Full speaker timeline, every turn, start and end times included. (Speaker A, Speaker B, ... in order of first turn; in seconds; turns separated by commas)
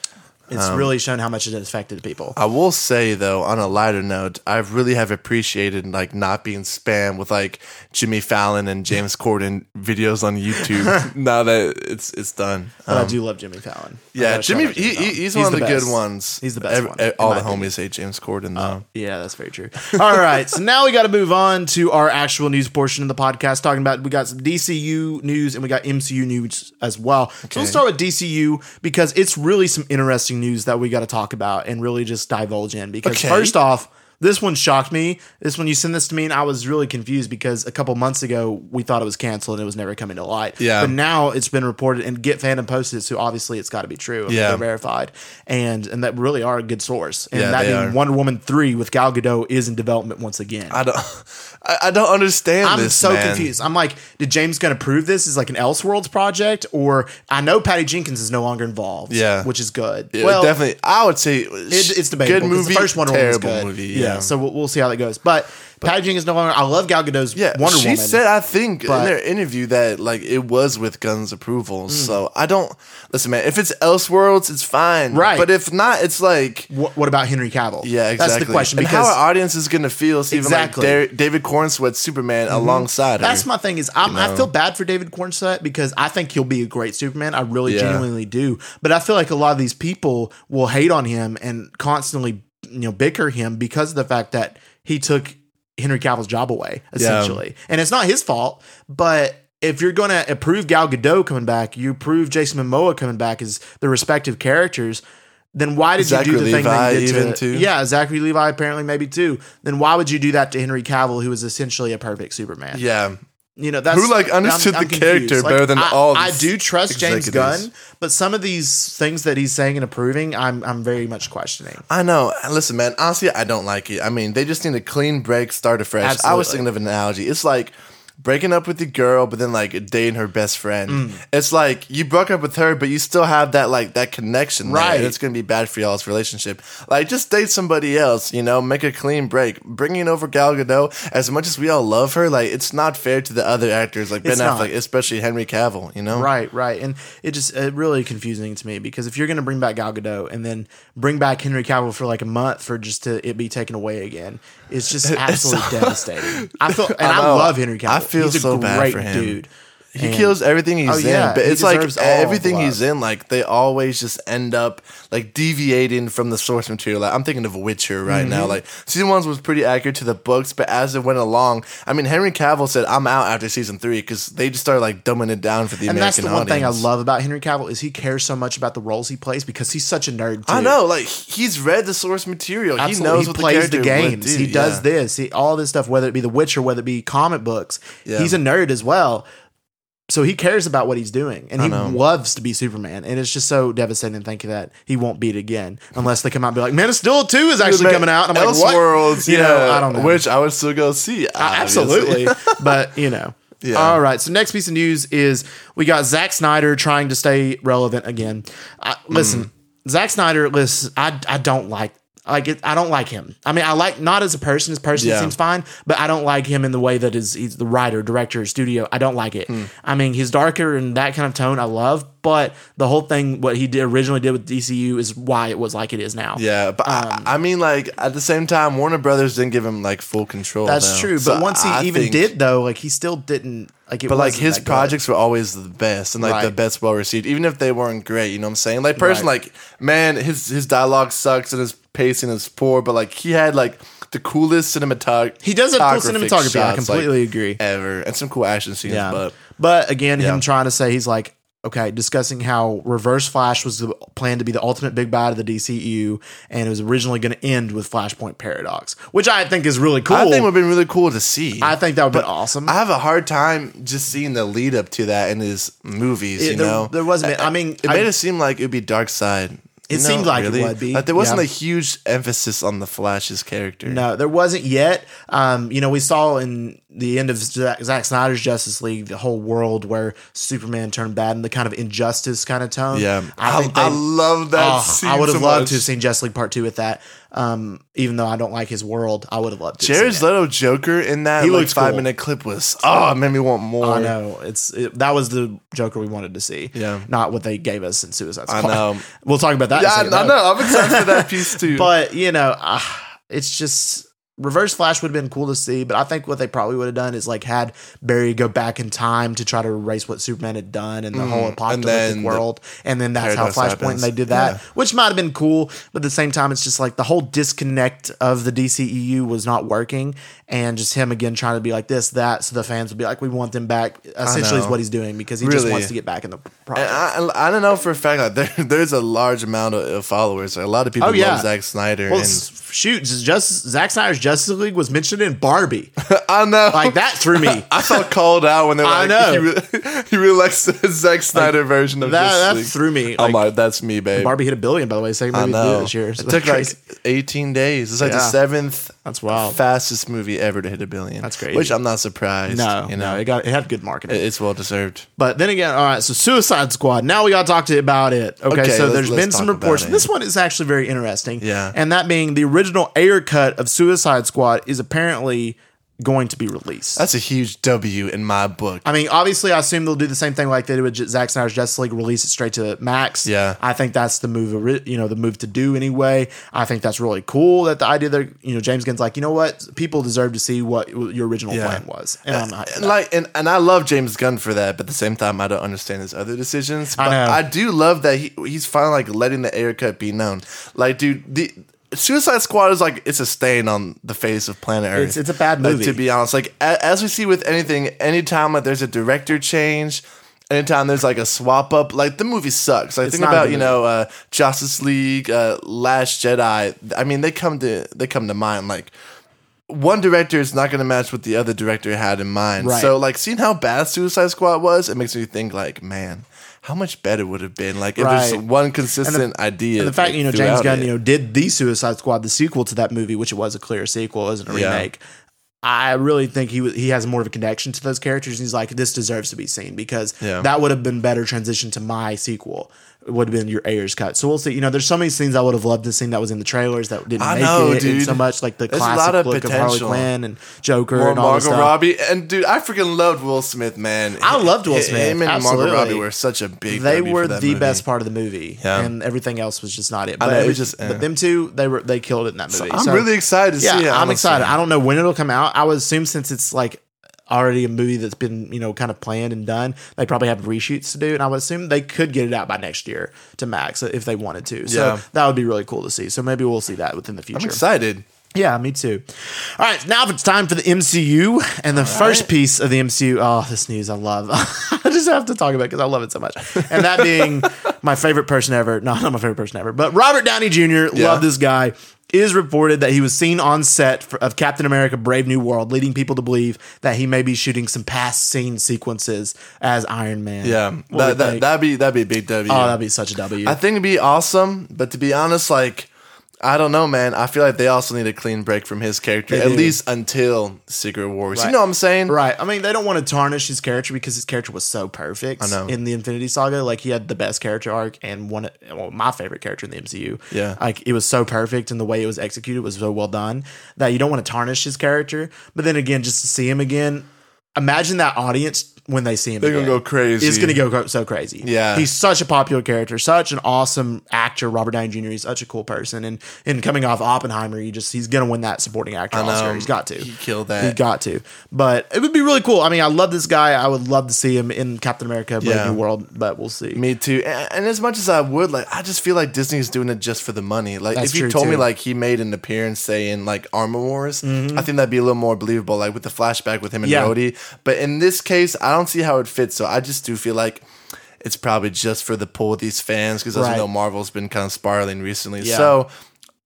Speaker A: 0.5-2.4, Speaker B: 0.6-0.9, Speaker B: 2.4-13.2, Speaker A: 10.8-11.1, Speaker A: 12.9-17.7, Speaker B: 14.1-18.8, Speaker A: 18.6-50.8, Speaker B: 19.9-20.4, Speaker B: 27.5-27.8, Speaker B: 33.0-33.5, Speaker B: 40.6-40.9, Speaker B: 44.3-44.6, Speaker B: 47.3-48.0, Speaker B: 50.7-53.5, Speaker A: 52.6-60.6, Speaker B: 59.1-59.5, Speaker B: 60.1-64.3, Speaker A: 61.7-68.2, Speaker B: 67.3-76.7, Speaker A: 68.8-69.1, Speaker A: 71.9-72.2, Speaker A: 75.1-75.5, Speaker A: 76.7-79.2, Speaker B: 77.8-83.5, Speaker A: 80.3-81.0, Speaker A: 82.5-105.0, Speaker B: 84.0-84.5, Speaker B: 87.7-88.1, Speaker B: 97.0-97.4, Speaker A: 105.5-112.8, Speaker B: 106.0-107.7, Speaker B: 112.7-113.2, Speaker A: 113.6-121.8, Speaker B: 113.9-117.7, Speaker B: 121.9-146.3, Speaker A: 126.0-126.7, Speaker A: 130.9-131.2, Speaker A: 134.6-135.2, Speaker A: 144.2-144.7, Speaker A: 146.1-162.8, Speaker B: 155.0-159.4, Speaker B: 159.9-176.9, Speaker A: 168.1-168.6, Speaker A: 175.8-180.8, Speaker B: 180.5-184.8, Speaker A: 182.8-189.2, Speaker B: 188.1-188.4, Speaker A: 190.1-200.2, Speaker B: 191.6-192.0, Speaker B: 197.6-202.9, Speaker A: 201.4-227.3, Speaker B: 203.6-204.0, Speaker B: 209.1-209.5, Speaker B: 215.0-215.3, Speaker B: 226.3-232.3, Speaker A: 230.7-235.0, Speaker B: 234.1-249.4, Speaker A: 236.2-236.5, Speaker A: 239.0-239.3, Speaker A: 245.4-247.6, Speaker A: 248.9-260.5, Speaker B: 260.1-274.0, Speaker A: 261.6-262.8, Speaker A: 266.4-268.1, Speaker A: 269.9-271.4, Speaker A: 273.9-284.0, Speaker B: 282.9-285.9, Speaker A: 284.5-290.3, Speaker B: 289.8-294.1, Speaker A: 291.4-292.1, Speaker A: 293.8-327.0, Speaker B: 296.8-297.1, Speaker B: 298.5-299.1, Speaker B: 299.7-301.9, Speaker B: 311.1-312.4, Speaker B: 313.2-314.6, Speaker B: 324.2-324.8, Speaker B: 325.4-325.9, Speaker B: 326.8-332.4, Speaker A: 331.0-331.5, Speaker A: 332.1-335.9, Speaker B: 336.0-344.3, Speaker A: 336.7-338.1, Speaker A: 338.8-339.5, Speaker A: 341.3-343.4, Speaker A: 344.1-346.8, Speaker B: 345.3-353.2, Speaker A: 348.0-348.4, Speaker A: 349.1-349.6, Speaker A: 351.2-351.8, Speaker A: 352.5-354.2, Speaker B: 354.1-355.1, Speaker A: 355.2-367.0, Speaker B: 358.5-360.1, Speaker B: 361.4-361.8, Speaker B: 367.0-368.8, Speaker A: 368.8-383.0, Speaker B: 373.2-373.6, Speaker B: 381.5-408.9, Speaker A: 387.0-387.4, Speaker A: 394.9-396.0, Speaker A: 403.0-403.8, Speaker B: 409.7-420.9, Speaker A: 412.6-412.9, Speaker A: 418.0-418.4, Speaker A: 419.0-425.0, Speaker B: 424.5-424.9, Speaker A: 425.6-441.8, Speaker B: 430.2-430.5, Speaker B: 437.2-440.1, Speaker B: 440.9-447.8, Speaker A: 444.2-446.1, Speaker A: 446.7-467.6, Speaker B: 448.6-448.9, Speaker B: 450.2-451.1, Speaker B: 452.5-454.6, Speaker B: 464.7-465.0, Speaker B: 467.3-468.0, Speaker A: 468.4-491.4, Speaker B: 471.8-472.3, Speaker B: 476.6-477.5, Speaker B: 480.9-481.3, Speaker B: 490.4-492.8, Speaker A: 492.5-493.6, Speaker B: 493.4-495.9, Speaker B: 496.4-502.2, Speaker A: 499.3-499.8, Speaker A: 502.1-536.8, Speaker B: 505.4-505.8, Speaker B: 510.3-510.6, Speaker B: 519.4-520.6, Speaker B: 521.4-521.9, Speaker B: 529.1-530.8, Speaker B: 535.4-535.8, Speaker B: 536.7-550.6, Speaker A: 541.0-541.7, Speaker A: 544.2-544.7, Speaker A: 546.8-547.1, Speaker B: 551.2-555.9, Speaker A: 553.3-553.7, Speaker A: 555.4-555.8